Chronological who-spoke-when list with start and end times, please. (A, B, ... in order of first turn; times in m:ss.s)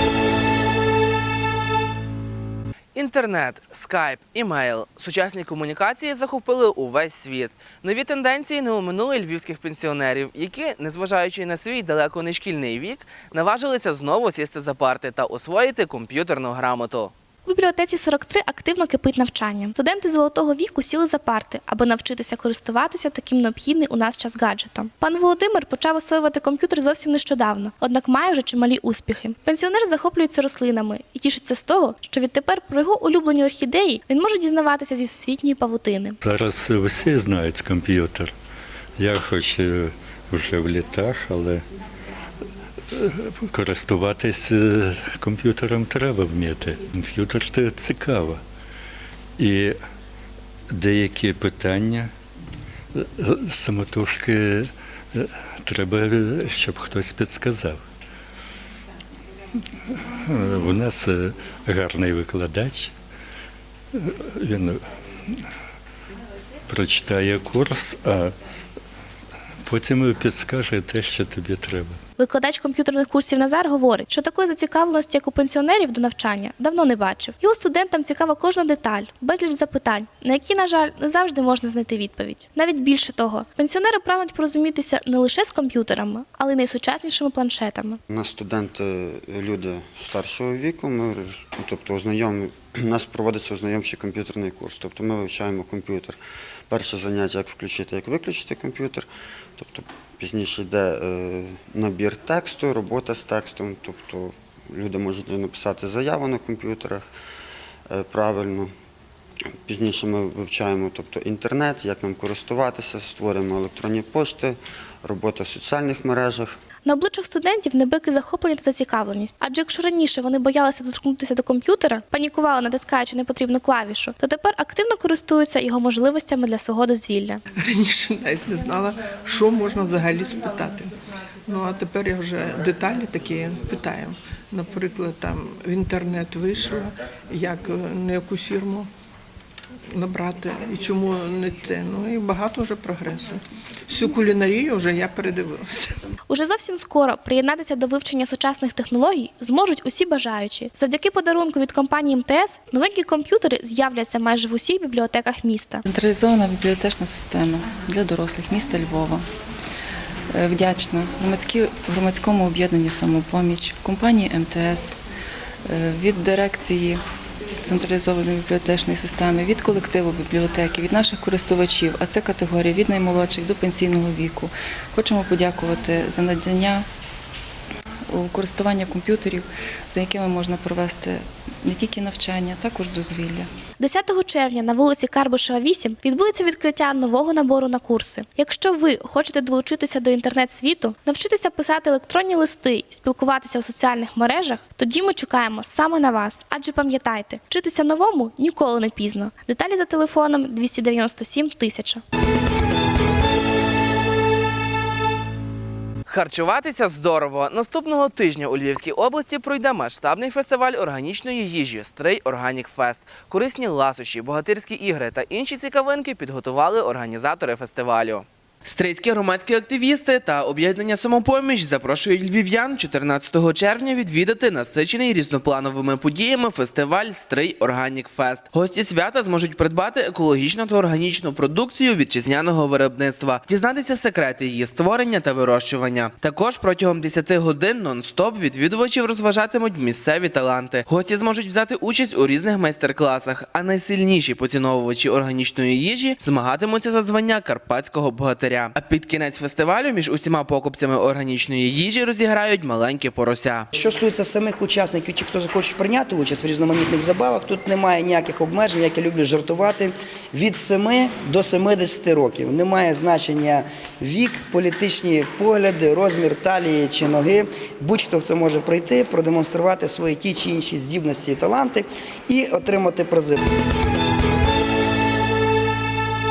0:02.9-0:17.1 A
0:17.4-0:36.2 B
0:36.2-0:38.3 C
0:39.0-0:41.6 C
0:42.9-0:48.4 C
0:49.4-0:49.8 C
0:50.7-0:52.1 C
0:52.9-0:57.8 C
0:59.9-1:02.9 C
1:03.9-1:04.8 C
1:06.7-1:08.3 C
1:09.6-1:12.0 C
1:12.2-1:28.0 B
1:28.1-1:47.1 D
1:47.9-1:48.7 D
1:49.6-1:56.5 D
1:56.8-2:07.4 B
2:07.6-2:10.9 E
2:11.5-2:18.9 E
2:19.9-2:26.0 E
2:26.3-2:35.8 B
2:35.9-2:39.2 F
2:40.3-2:44.9 F
2:45.7-2:47.0 F
2:47.6-2:56.8 F
2:58.1-3:03.5 F
3:03.8-3:22.0 B
3:26.1-4:13.7 A
4:13.7-4:33.4 G